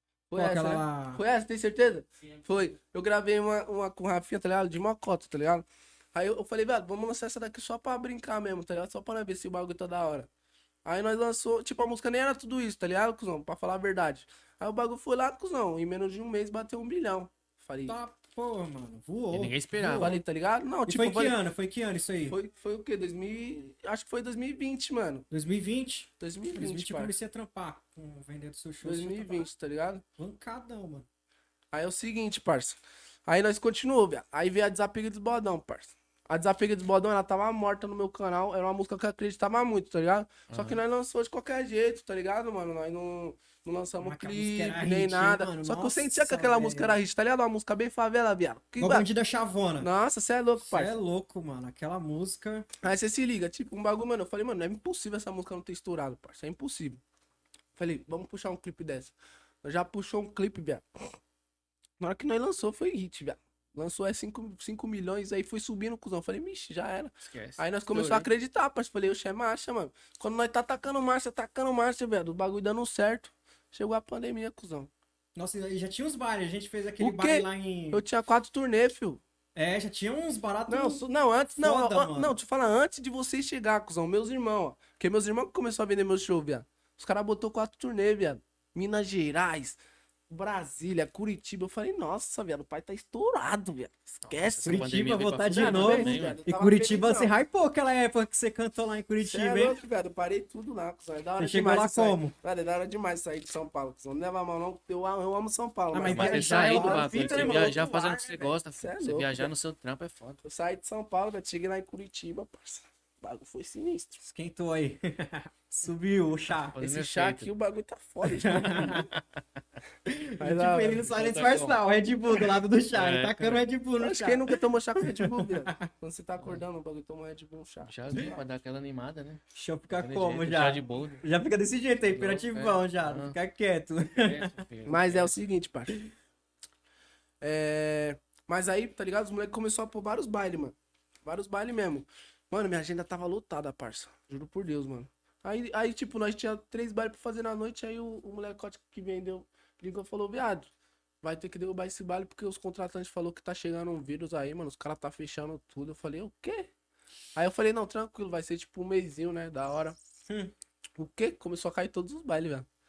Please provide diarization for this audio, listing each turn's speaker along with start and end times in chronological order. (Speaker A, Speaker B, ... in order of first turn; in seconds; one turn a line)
Speaker A: 0.3-10.3
Speaker B: 0.3-1.2
Speaker A: 10.8-18.0
Speaker B: 17.9-20.2
Speaker C: 19.3-20.2
Speaker A: 20.0-21.4
Speaker B: 20.9-22.4
Speaker A: 22.3-25.2
Speaker B: 25.3-29.5
Speaker A: 26.2-27.1
Speaker A: 28.8-30.0
Speaker B: 30.2-31.1
Speaker A: 31.7-49.1
Speaker C: 40.5-40.8
Speaker B: 44.0-47.0
Speaker B: 48.8-49.9
Speaker A: 49.8-51.0
Speaker B: 50.6-52.7
Speaker A: 52.8-57.0
Speaker A: 57.8-60.8
Speaker A: 62.0-74.9
Speaker C: 67.2-68.3
Speaker B: 75.3-78.0
Speaker A: 77.0-79.2
Speaker B: 79.5-81.0
Speaker A: 80.7-94.9
Speaker B: 81.6-82.3
Speaker C: 94.2-96.4
Speaker B: 94.6-99.8
Speaker A: 95.5-97.3
Speaker A: 99.2-109.5
Speaker B: 101.4-102.3
Speaker B: 105.9-108.3
Speaker C: 106.0-110.4
Speaker A: 110.4-114.2
Speaker B: 114.2-116.8
Speaker C: 116.7-117.5
Speaker A: 116.8-119.1
Speaker B: 118.4-119.0
Speaker C: 118.9-119.2
Speaker B: 120.1-125.9
Speaker A: 120.4-121.2
Speaker C: 121.1-121.8
Speaker C: 122.9-123.6
Speaker A: 124.0-128.4
Speaker C: 127.8-131.2
Speaker B: 129.5-134.6
Speaker C: 132.0-133.3
Speaker C: 134.2-135.3
Speaker A: 134.8-135.9
Speaker A: 137.4-150.7
Speaker A: 151.2-156.7
Speaker A: 157.3-160.0
Speaker A: 160.9-162.7